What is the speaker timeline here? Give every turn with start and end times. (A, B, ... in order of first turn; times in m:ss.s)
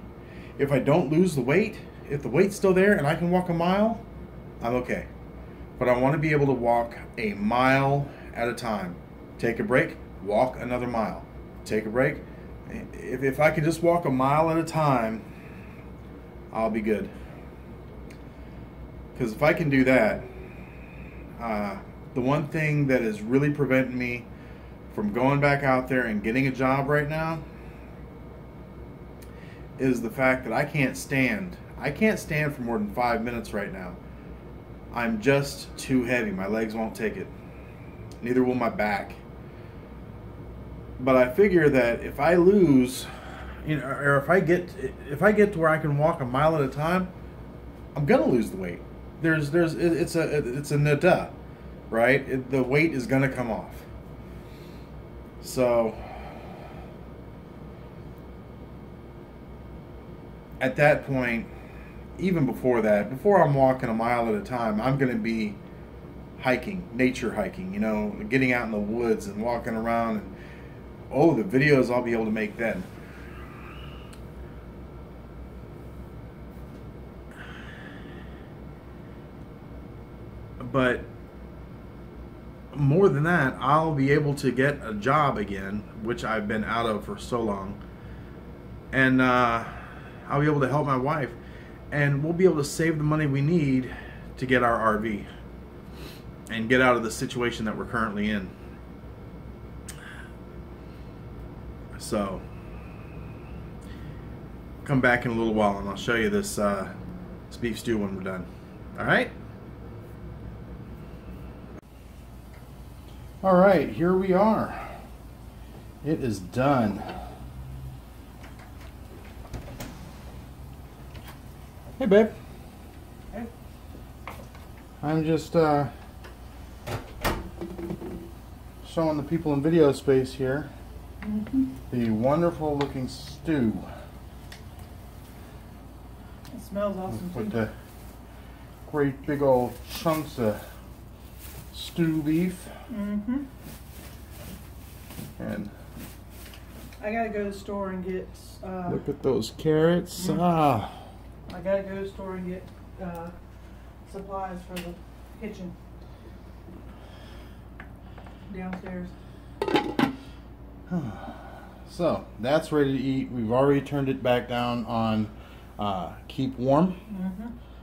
0:00.6-0:04.0 A
0:04.6-0:05.1 A
0:05.8-0:15.2 A
0:16.5-0:17.1 A
0:19.1-0:20.2 A
0:21.4-0:24.3 A
0:24.9-0:27.4 A
0:29.8-0:34.0 A
0:34.9-0:37.3 A
0:38.2-0:39.2 A
0:41.0-0:47.1 A
0:47.9-0:51.4 A
0:51.9-0:53.9 A
0:55.4-0:56.2 A
1:00.6-1:01.5 A
1:02.2-1:05.6 A
1:06.4-1:10.3 A
1:11.1-1:12.9 A
1:20.6-1:21.1 A
1:22.7-1:27.8 A
1:28.9-1:31.4 A
1:31.9-1:35.3 A
1:36.5-1:38.5 A
1:42.0-1:42.4 A
1:44.8-1:46.9 A
1:47.5-1:49.3 A
1:53.4-1:55.0 A
1:56.0-1:57.2 A
2:02.0-2:02.3 A
2:05.0-2:05.9 A
2:08.8-2:10.7 A
2:11.2-2:11.7 B
2:11.9-2:13.8 A
2:16.5-2:17.6 B
2:17.1-2:17.7 A
2:18.8-2:20.6 A
2:21.7-2:22.8 A
2:22.9-2:23.5 B
2:25.4-2:25.7 A
2:27.0-2:29.0 B
2:28.9-2:31.1 A
2:31.5-2:33.3 B
2:34.0-2:35.7 B
2:38.5-2:39.1 B
2:40.9-2:47.0 A
2:47.1-2:47.5 B